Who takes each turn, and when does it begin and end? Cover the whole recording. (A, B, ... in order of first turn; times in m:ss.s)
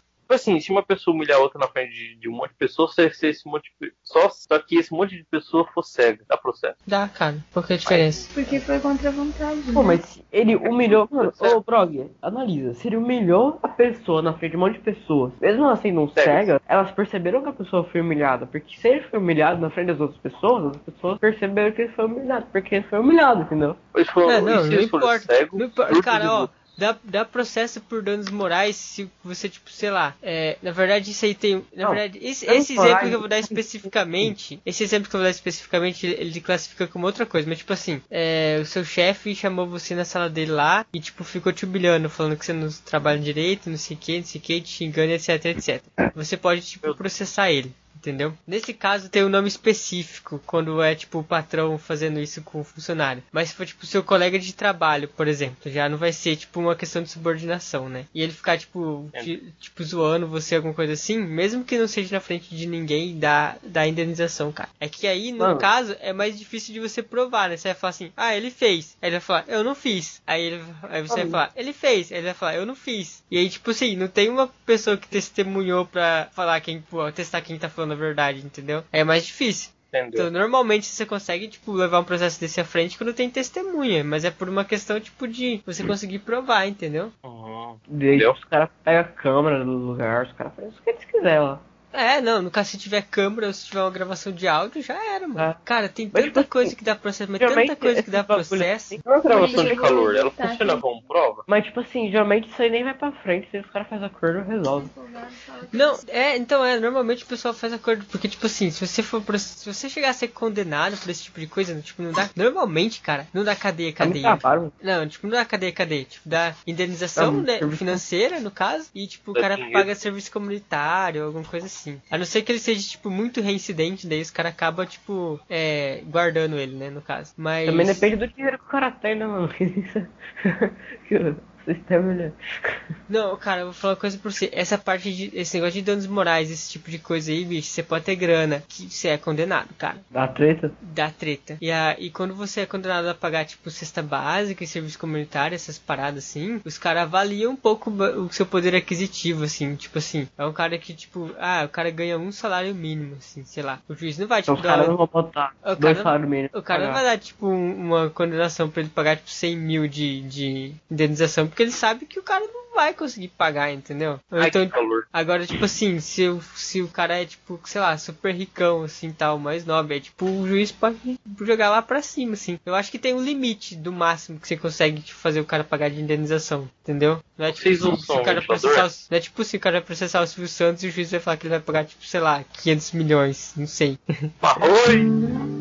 0:00.3-0:06.8 A
0:06.9-0:08.3 B
0:07.9-0:08.3 A
0:08.3-0:10.0 C
0:09.7-0:23.8 D
0:10.7-0:11.6 A
0:16.2-0:16.5 A
0:23.9-0:26.5 A
0:24.3-1:27.1 B
0:31.8-0:34.3 D
1:05.4-1:05.7 D
1:11.1-1:11.4 D
1:19.9-1:20.3 A
1:27.2-1:28.3 A
1:27.9-1:31.6 D
1:31.9-1:39.0 B
1:36.1-1:36.8 D
1:37.4-1:40.0 D
1:39.3-1:41.4 A
1:39.3-1:40.9 C
1:41.5-1:44.9 D
1:44.6-1:46.0 C
1:45.7-2:08.1 B
1:54.0-1:54.7 D
1:57.2-1:58.0 D
1:59.4-1:59.9 A
2:07.6-2:12.8 D
2:13.1-2:20.0 B
2:20.1-2:20.8 D
2:20.8-2:35.0 B
2:34.5-2:37.0 D
2:35.6-3:04.3 B
2:44.4-2:45.1 A
2:57.5-2:58.9 A
3:04.4-3:05.1 A